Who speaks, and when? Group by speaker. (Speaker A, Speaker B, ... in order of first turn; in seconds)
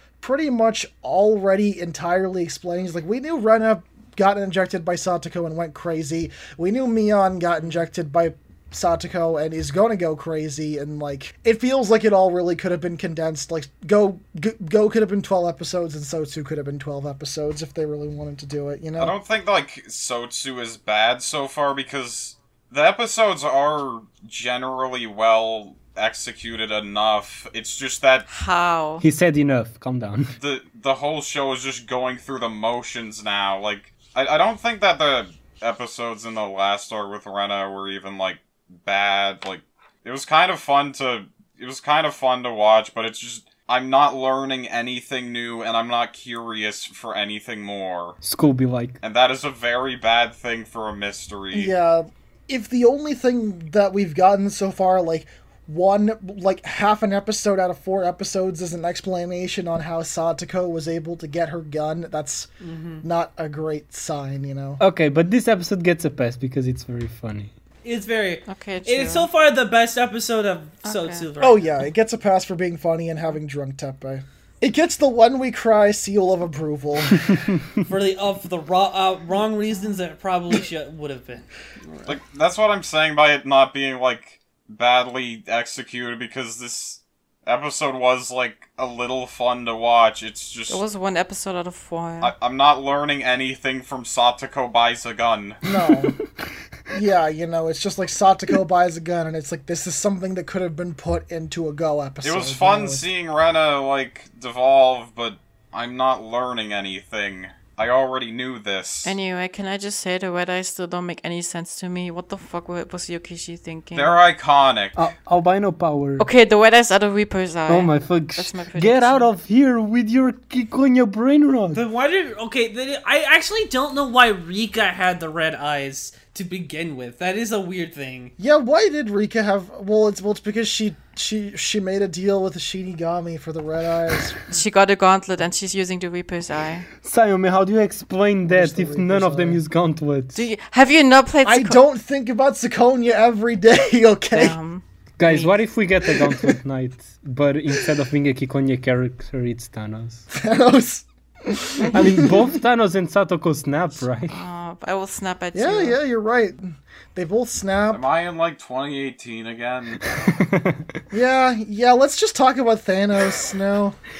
Speaker A: 0.2-19.1, 51.5-62.5, 63.0-64.8, 71.4-77.3, 95.6-96.2, 96.9-103.0, 128.4-134.4, 138.5-139.6, 141.4-144.6, 146.2-146.5, 150.3-152.6, 155.5-158.0, 161.1-164.0
Speaker B: 19.0-28.3, 30.4-48.2, 49.0-51.7, 82.0-90.8, 92.2-95.6, 102.2-109.2, 113.9-115.0, 157.9-160.1
Speaker C: 28.3-29.0, 68.5-69.3, 70.8-71.2, 90.7-92.3, 109.0-114.2, 116.2-119.3, 134.5-136.8, 140.3-141.8, 144.3-145.5, 154.3-156.0
Speaker D: 29.0-30.3, 48.2-49.0, 64.8-67.5, 77.3-77.8, 115.0-116.2, 117.7-121.8, 137.0-140.4, 145.2-150.3, 151.9-154.4, 160.0-161.0
Speaker E: 62.6-63.0, 67.8-71.7, 77.8-82.1, 121.7-128.3